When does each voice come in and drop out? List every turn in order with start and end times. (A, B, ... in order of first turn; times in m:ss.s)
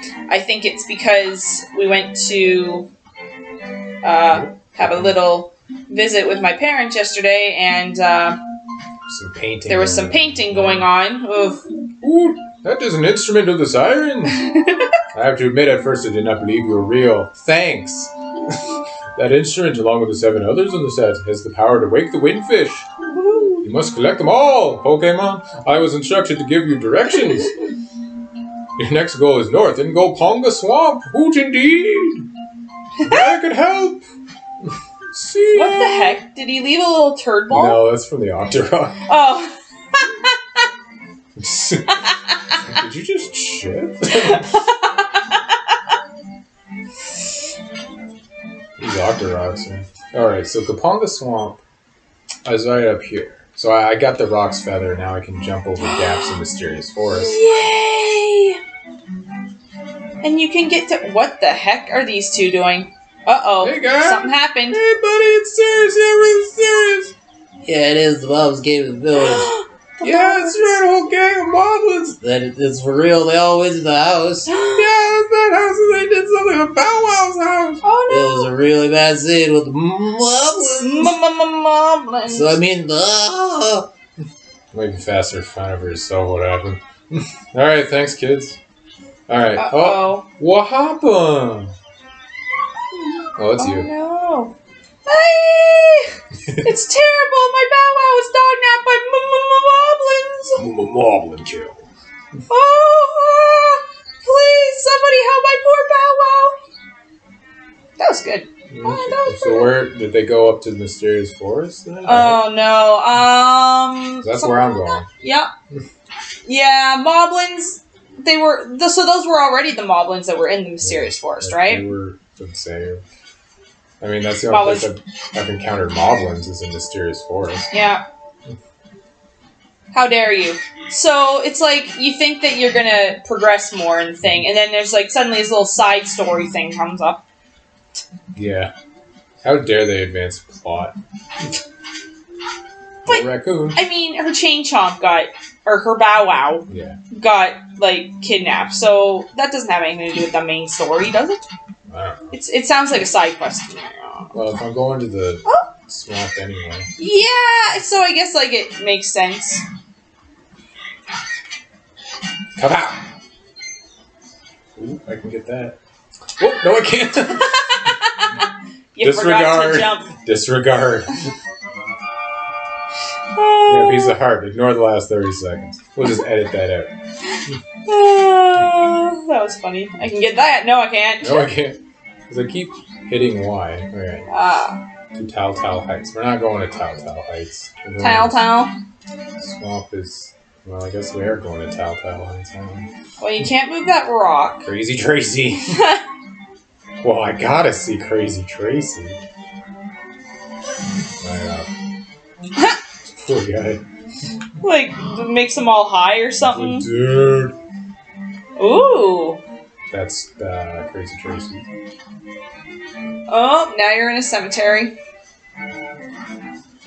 0:00.3-0:02.9 A
0:04.0-0:08.4 A
0:04.3-0:05.2 B
0:09.0-0:10.9 B
0:09.7-0:11.6 A
0:12.0-0:14.4 B
0:14.3-0:14.9 A
0:15.1-0:18.1 B
0:19.2-0:22.9 B
0:23.1-0:23.7 A
0:23.6-0:27.5 B
0:28.8-0:32.2 B
0:33.0-0:33.3 A
0:33.0-0:34.0 B
0:34.6-0:36.2 B
0:35.5-0:37.8 A
0:37.5-0:39.0 B
0:39.1-0:40.3 A
0:41.4-0:42.0 B
0:42.6-0:44.5 B
0:44.1-0:45.6 A
0:48.8-0:51.6 B
0:52.4-0:57.4 B
0:55.8-0:56.4 A
0:57.1-0:58.6 A
1:00.2-1:04.8 A
1:03.6-1:07.1 B
1:07.6-1:09.5 C
1:09.2-1:10.6 A
1:10.0-1:12.2 B
1:12.2-1:14.5 C
1:14.5-1:14.9 A
1:14.5-1:17.8 B
1:17.8-1:18.5 A
1:18.1-1:21.1 C
1:20.8-1:22.6 A
1:22.2-1:23.9 C
1:24.7-1:28.6 B
1:29.3-1:31.7 B
1:29.6-1:30.2 A
1:33.4-1:33.9 B
1:33.6-1:34.5 A
1:35.0-1:36.1 A
1:36.6-1:40.6 A
1:40.6-1:41.9 B
1:42.5-1:46.5 A
1:48.0-1:49.7 A
1:48.7-1:52.4 B
1:52.0-1:55.5 A
1:54.2-1:55.1 B
1:56.4-2:01.8 A
2:00.8-2:03.0 B
2:04.0-2:07.7 B
2:04.5-2:04.9 A
2:07.7-2:08.0 A
2:09.9-2:17.2 A
2:14.2-2:14.5 B
2:18.3-2:18.7 B
2:19.4-2:21.0 B
2:23.0-2:23.8 B
2:23.0-2:31.4 A
2:26.7-2:27.0 B
2:31.9-2:32.4 B
2:32.3-2:34.3 A
2:34.3-2:36.9 B
2:37.0-2:39.6 A
2:42.6-2:43.0 B
2:44.8-2:45.8 B
2:46.4-2:47.6 B
2:47.5-2:48.4 A
2:48.9-2:50.1 A
2:49.0-2:51.2 B
2:53.3-2:54.1 A
2:53.7-2:56.9 B
2:57.3-3:01.4 A
3:01.2-3:04.3 B
3:04.3-3:04.8 A
3:05.1-3:08.4 B
3:08.0-3:08.7 A
3:09.4-3:12.9 B
3:13.2-3:14.6 A
3:14.6-3:15.8 B
3:15.7-3:16.0 A
3:17.0-3:19.2 B
3:21.2-3:21.7 B
3:23.2-3:23.8 B
3:24.6-3:26.9 A
3:26.4-3:27.5 B
3:28.6-3:29.4 A
3:29.9-3:31.7 B
3:33.3-3:34.9 A